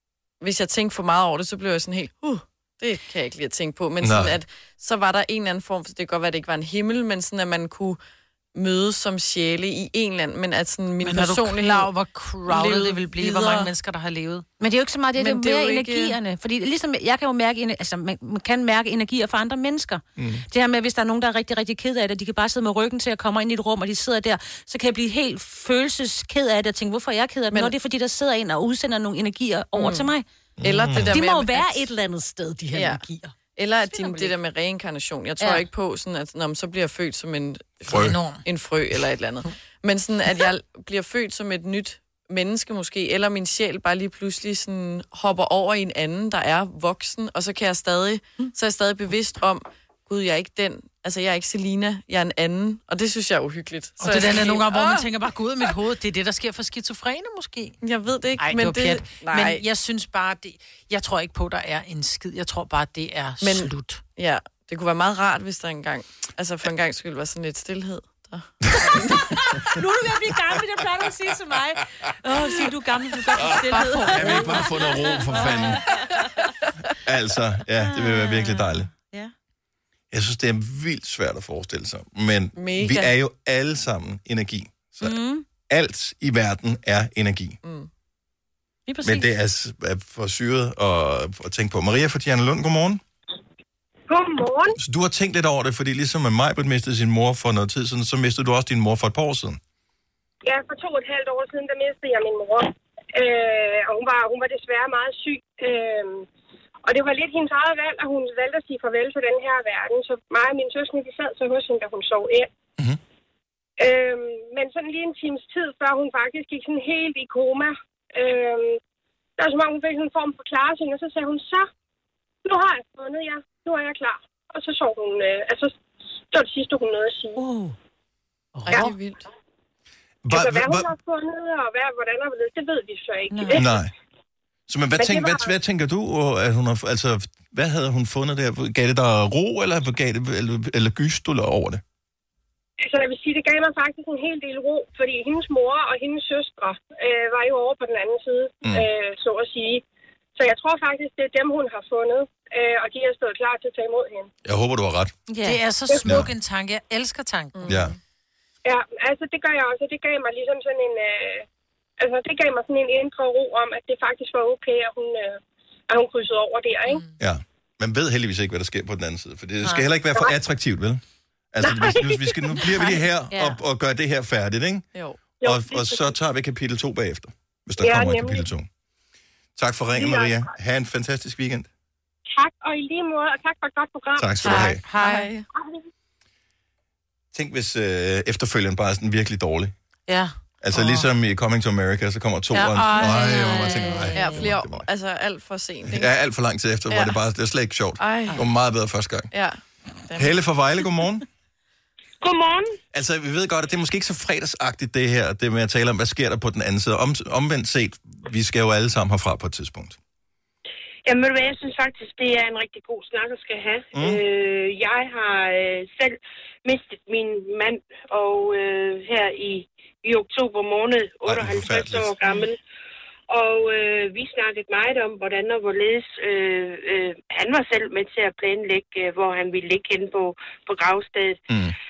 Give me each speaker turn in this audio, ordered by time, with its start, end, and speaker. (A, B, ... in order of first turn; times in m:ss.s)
0:00.4-0:08.0 A
0:04.0-0:04.4 B
0:08.5-0:11.9 A
0:11.0-0:14.4 C
0:12.5-0:13.7 A
0:14.6-0:30.2 D
0:15.2-0:16.2 A
0:20.2-0:20.4 B
0:29.8-0:30.1 A
0:30.6-0:31.1 B
0:30.6-0:31.9 A
0:31.1-0:34.4 D
0:32.7-0:33.0 A
0:33.6-0:55.1 A
0:35.4-0:35.6 D
0:37.9-0:38.2 B
0:38.0-0:38.4 C
0:54.0-0:57.8 C
0:57.8-0:59.6 A
0:58.4-1:04.0 C
1:03.4-1:09.3 A
1:09.4-1:16.2 D
1:13.3-1:15.8 B
1:13.7-1:14.4 C
1:17.0-1:18.9 B
1:17.8-1:19.3 D
1:20.1-1:25.2 B
1:22.6-1:23.1 A
1:25.0-1:25.4 D
1:25.7-1:27.6 B
1:27.6-1:27.9 A
1:28.9-1:29.3 D
1:29.0-1:33.0 B
1:34.1-1:34.8 E
1:34.8-1:39.6 B
1:40.4-1:46.3 E
1:46.8-1:52.5 E
1:53.8-1:58.8 E
1:59.4-2:01.7 E
2:02.4-2:05.7 E
2:06.3-2:07.4 E
2:07.4-2:07.8 D
2:08.5-2:08.9 D
2:08.7-2:09.2 A
2:10.2-2:10.9 B
2:10.3-2:13.7 E
2:13.3-2:13.6 D
2:13.5-2:13.9 B
2:14.7-2:21.8 B
2:15.0-2:15.5 E
2:22.8-2:29.8 E
2:28.6-2:28.9 B
2:30.4-2:34.3 E
2:34.4-2:35.1 B
2:35.3-2:35.6 D
2:35.4-2:37.8 C
2:35.9-2:36.2 E
2:36.0-2:36.3 B
2:37.5-2:38.0 A
2:37.7-2:37.9 B
2:38.6-2:41.4 E
2:42.0-2:47.0 E
2:47.2-2:51.0 B
2:51.5-2:54.9 B
2:51.6-2:52.6 E
2:52.7-2:53.6 D
2:54.9-2:55.2 A
2:55.4-2:56.1 E
2:55.4-2:58.7 B
2:57.8-2:58.5 E
2:59.6-3:01.7 B
2:59.9-3:00.5 E
3:02.3-3:04.5 E
3:04.2-3:04.8 B
3:04.4-3:05.3 C
3:04.4-3:05.5 A
3:07.3-3:09.7 B
3:10.1-3:11.1 C
3:10.6-3:14.9 B
3:12.5-3:14.1 C
3:12.8-3:14.5 D
3:14.1-3:16.1 A
3:15.8-3:19.3 B
3:16.9-3:17.2 A
3:18.0-3:18.4 A
3:19.3-3:20.4 A
3:20.2-3:21.2 B
3:22.2-3:22.8 F
3:22.9-3:30.0 B
3:31.0-3:42.6 F
3:33.9-3:34.2 B
3:41.2-3:42.1 B
3:43.3-3:51.4 F
3:51.5-3:51.8 B